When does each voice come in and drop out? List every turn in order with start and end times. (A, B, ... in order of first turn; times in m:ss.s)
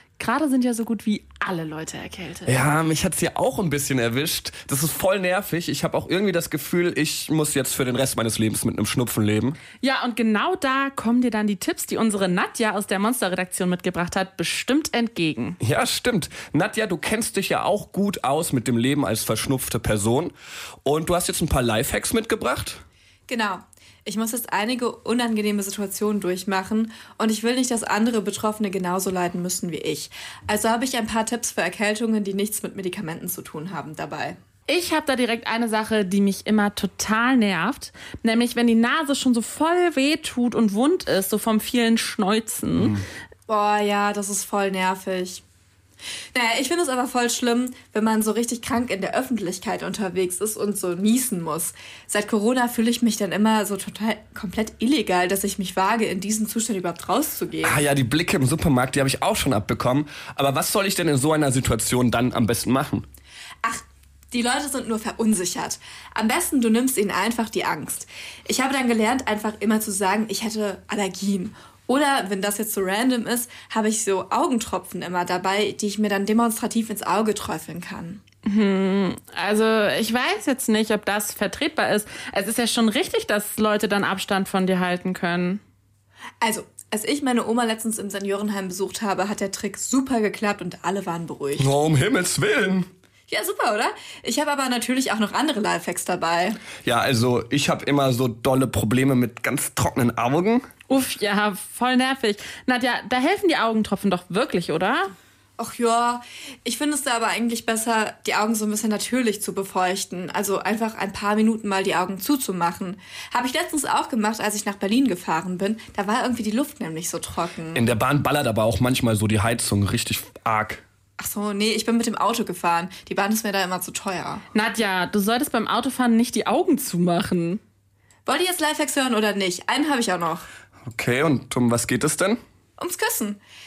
0:00.2-0:02.6 A
0:02.4-0:09.6 B
0:09.8-0:15.6 A
0:15.6-0:22.8 B
0:23.3-0:34.4 C
0:34.7-0:43.0 A
0:42.8-0:43.0 B
0:43.5-0:45.4 C
0:46.3-0:57.8 C
0:57.6-1:03.0 B
1:03.6-1:18.2 C
1:18.4-1:25.6 A
1:26.4-1:31.7 C
1:31.6-1:32.9 B
1:33.3-1:36.6 C
1:36.8-1:40.7 B
1:40.9-1:45.1 A
1:45.6-1:57.8 C
1:57.7-2:00.8 B
2:01.2-2:04.4 C
2:04.5-2:07.6 A
2:08.2-2:10.4 C
2:10.9-2:12.4 B
2:12.8-2:13.4 C